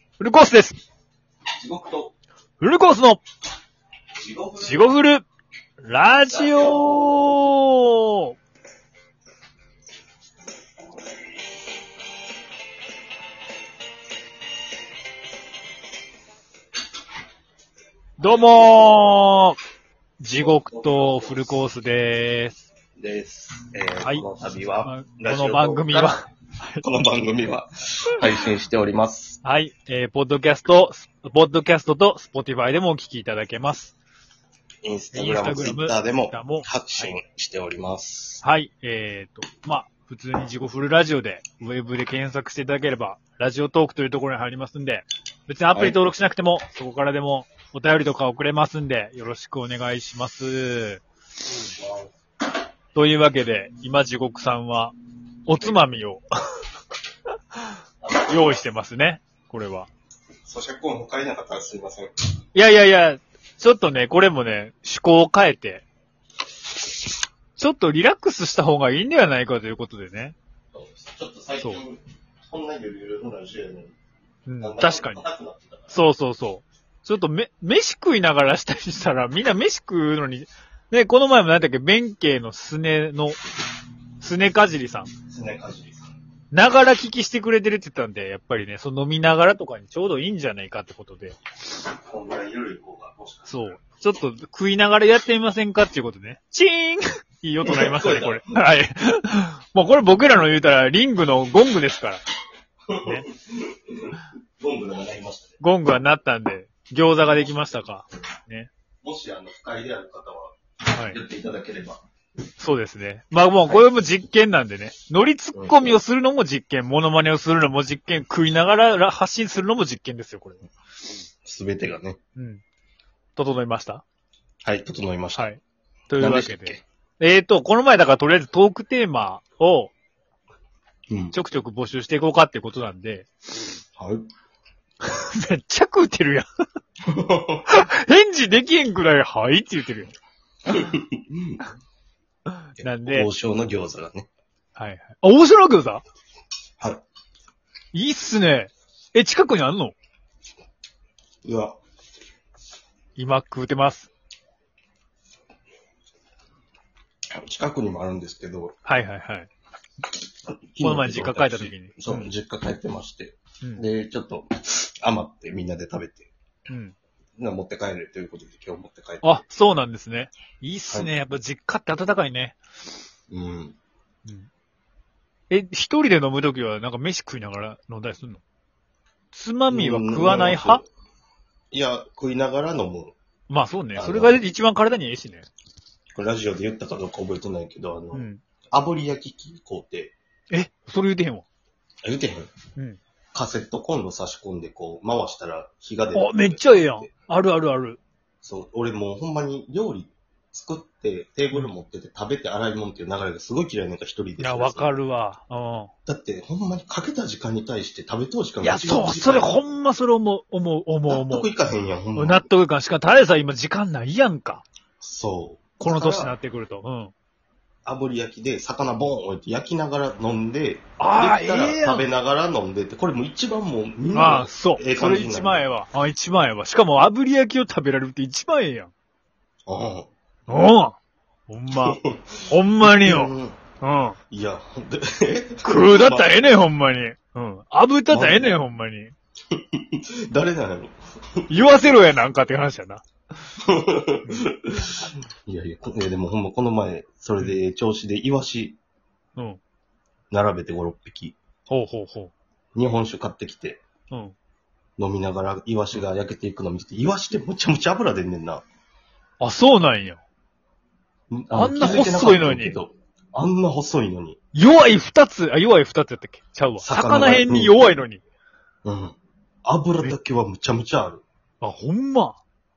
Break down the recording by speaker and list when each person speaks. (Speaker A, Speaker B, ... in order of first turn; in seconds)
Speaker A: 0.2-0.8, 2.6-3.2, 4.6-5.2, 5.8-8.3, 18.2-19.6, 20.2-22.7, 24.8-26.8, 29.4-33.9, 35.1-37.1, 38.4-51.0, 52.9-54.9, 55.5-56.2, 58.2-59.9, 62.5-65.8, 67.5-70.3, 74.5-75.2, 75.9-83.4, 84.2-85.1, 86.5-91.3, 93.5-102.2, 103.0-103.2, 105.6-108.7, 110.9-111.2, 112.6-120.7, 122.3-122.6, 123.3-124.0, 125.3-129.9, 131.3-133.3, 135.0-136.5, 137.7-140.1, 142.8-143.3, 144.8-146.0, 147.9-149.9, 153.2-154.1, 158.8-159.5, 160.8-162.3, 166.7-166.9, 169.2-172.6, 175.5-178.4, 179.3-180.8, 183.5-185.4, 188.1-188.4, 190.5-191.4, 196.1-198.0, 204.4-205.9, 208.6-211.5, 212.2-214.6, 215.8-217.1, 221.0-222.0, 224.1-228.9, 230.5-230.9, 231.5-234.2, 235.6-239.1, 241.5-243.0, 251.7-252.3, 259.4-260.2, 261.5-262.8, 264.5-268.2, 271.6-272.4
Speaker B: 1.6-2.1, 4.2-4.8, 6.3-7.2, 20.3-21.6, 23.0-26.1, 26.8-29.4, 34.8-38.4, 45.7-46.0, 51.5-52.1, 58.0-58.6, 60.5-62.1, 70.7-74.0, 74.6-76.0, 85.2-86.1, 92.0-93.5, 97.6-98.6, 102.9-105.6, 109.0-112.0, 115.5-116.0, 121.4-122.2, 124.6-125.5, 126.2-126.8, 131.1-131.3, 134.0-134.2, 137.1-137.7, 140.7-141.6, 142.8-144.3, 151.4-151.7, 157.4-158.7, 160.5-166.3, 167.4-169.4, 173.3-173.8, 179.7-180.8, 181.7-183.1, 183.9-184.4, 186.1-190.1, 192.0-192.5, 193.3-197.1, 198.4-204.9, 206.1-209.6, 211.1-212.4, 215.0-216.3, 217.8-225.6, 229.7-230.1, 231.8-233.6, 234.3-236.5, 238.1-238.6, 239.5-241.5, 243.6-248.8, 250.3-251.4, 252.7-253.8, 255.0-258.6, 261.3-264.4, 266.8-267.9, 268.8-271.2